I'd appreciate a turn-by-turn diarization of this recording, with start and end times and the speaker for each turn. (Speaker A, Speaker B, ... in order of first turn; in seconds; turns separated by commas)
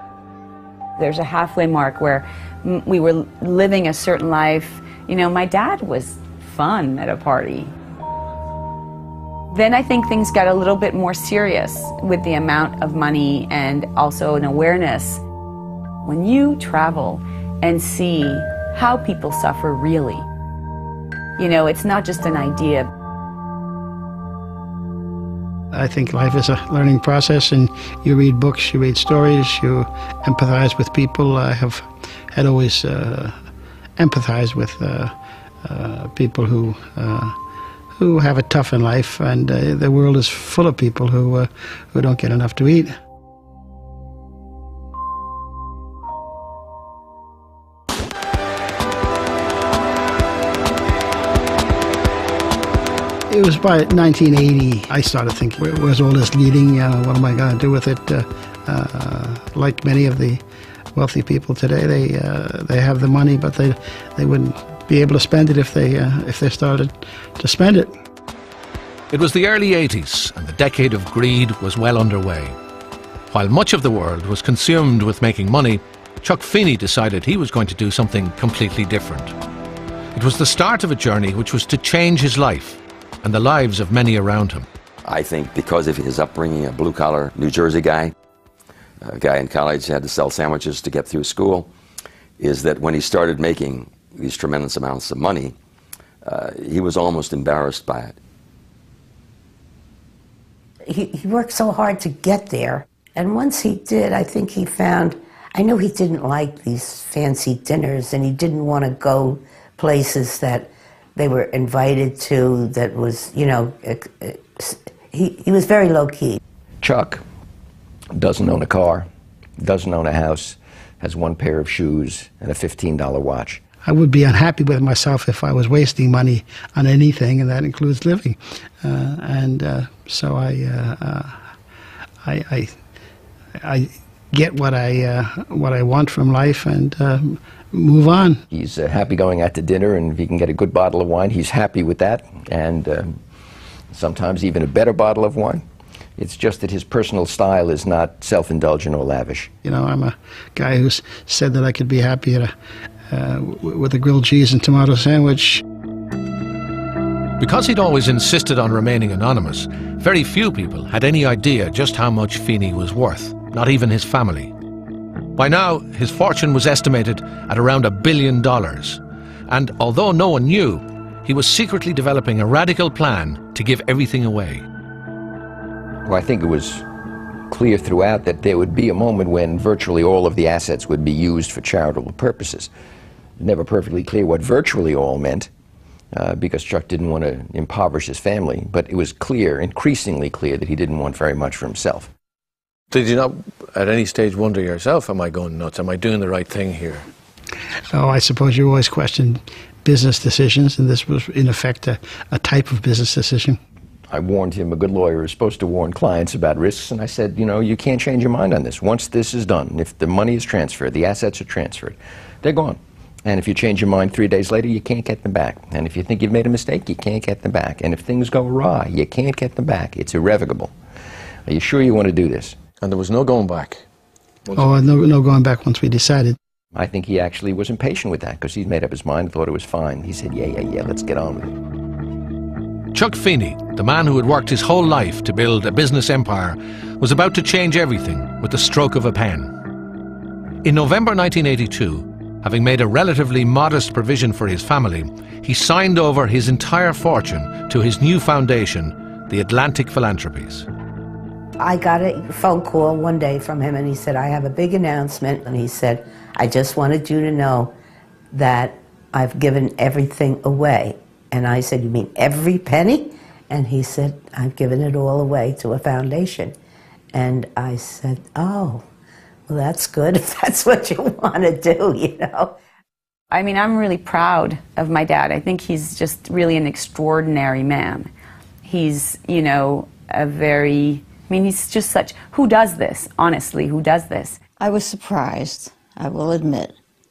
Speaker A: 1.0-7.7, Speaker A: 9.5-15.2, Speaker A: 16.0-20.2, Speaker A: 21.4-22.9, Speaker B: 25.7-33.3, Speaker B: 34.0-35.1, Speaker B: 35.6-37.3, Speaker B: 38.0-42.9, Speaker B: 53.3-60.4, Speaker B: 60.9-67.9, Speaker C: 69.1-72.5, Speaker C: 73.3-79.3, Speaker C: 80.1-84.7, Speaker D: 85.1-88.1, Speaker D: 89.0-91.7, Speaker D: 92.4-95.5, Speaker D: 96.2-98.2, Speaker E: 100.9-116.4, Speaker F: 116.8-117.2, Speaker F: 118.2-119.0, Speaker F: 119.6-123.6, Speaker B: 123.8-131.3, Speaker B: 132.2-132.7, Speaker B: 133.6-138.4, Speaker F: 138.5-143.2, Speaker F: 143.9-145.6, Speaker F: 146.2-149.5, Speaker B: 149.6-152.5, Speaker B: 153.1-155.6, Speaker C: 157.4-164.5, Speaker C: 165.3-174.6, Speaker F: 176.1-176.8, Speaker F: 177.5-182.7, Speaker F: 183.4-185.5, Speaker F: 186.1-192.1, Speaker C: 192.9-197.0, Speaker B: 197.9-203.6, Speaker F: 204.1-220.7, Speaker F: 221.5-222.6, Speaker C: 222.8-223.8, Speaker B: 224.5-226.4, Speaker F: 226.7-231.5, Speaker C: 232.9-239.5, Speaker C: 240.6-250.7, Speaker E: 251.6-257.7, Speaker E: 258.3-266.5, Speaker E: 267.1-268.8, Speaker E: 269.5-272.6, Speaker A: 273.3-278.1, Speaker A: 278.6-284.4, Speaker G: 284.6-286.7